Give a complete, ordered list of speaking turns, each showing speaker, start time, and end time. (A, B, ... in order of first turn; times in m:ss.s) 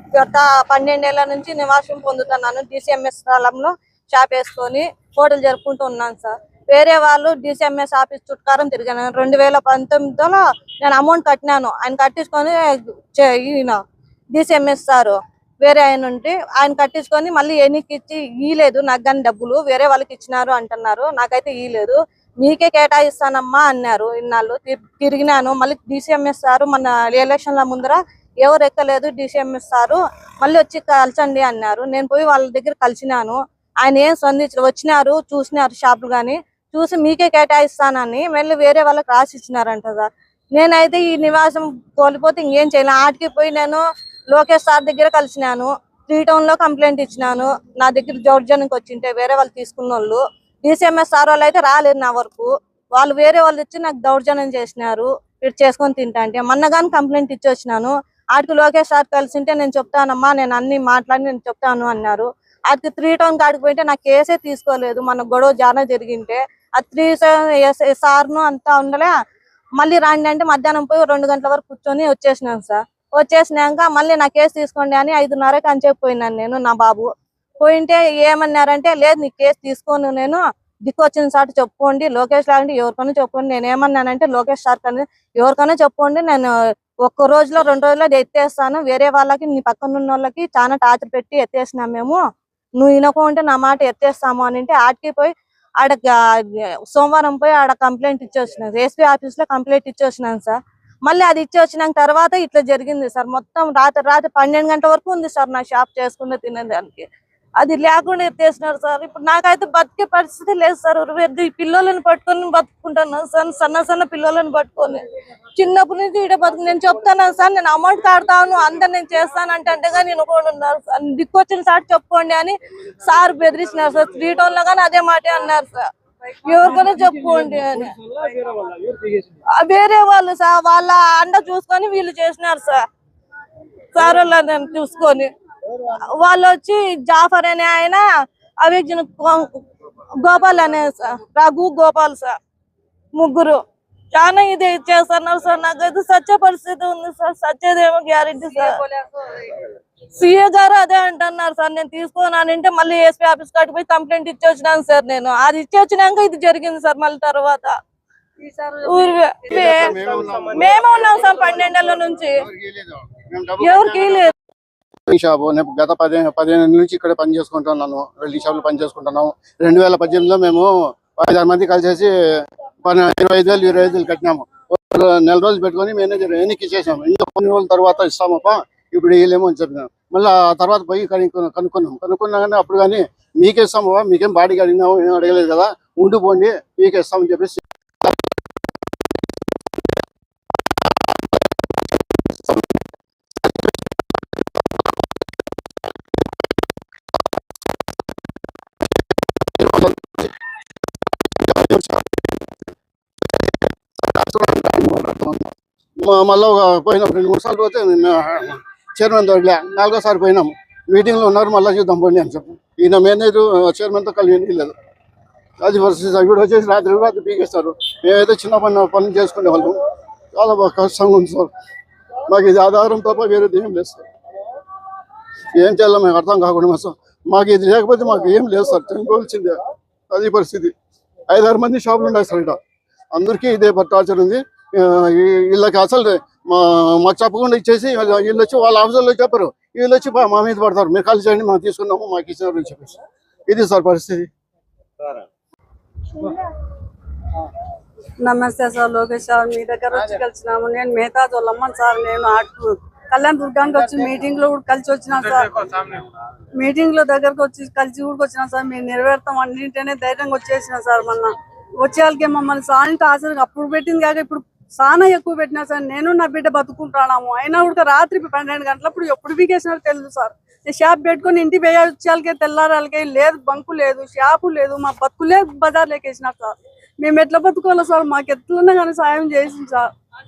0:00.2-0:12.6 A
0:13.1-0:13.8 A
0:14.4-1:09.1 A
1:09.8-1:17.1 A
1:17.6-1:26.5 A
1:27.0-1:32.2 A
1:32.8-1:47.1 A
1:47.6-1:55.0 A
1:55.6-2:05.9 A
2:06.4-2:08.0 A
2:08.2-2:08.7 B
2:09.5-2:12.8 A
2:13.9-2:18.1 A
2:18.6-2:19.6 A
2:20.2-2:22.4 A
2:23.2-2:23.6 A
2:24.1-2:28.8 A
2:28.4-2:29.7 B
2:30.1-2:37.8 A
2:38.4-2:41.6 B
2:38.9-2:42.4 A
2:39.5-2:40.8 C
2:42.3-2:44.3 C
2:43.6-2:44.3 A
2:45.1-3:08.2 C
3:19.6-3:20.3 C
3:21.4-3:22.3 C
3:24.0-3:34.8 C
3:35.6-3:39.8 C
3:40.3-3:41.5 C
3:42.3-3:44.0 C
3:45.5-3:49.6 C
3:50.1-3:50.7 C
3:51.3-3:52.6 C
3:53.1-4:04.3 C
4:08.2-4:16.0 B
4:16.5-4:39.9 B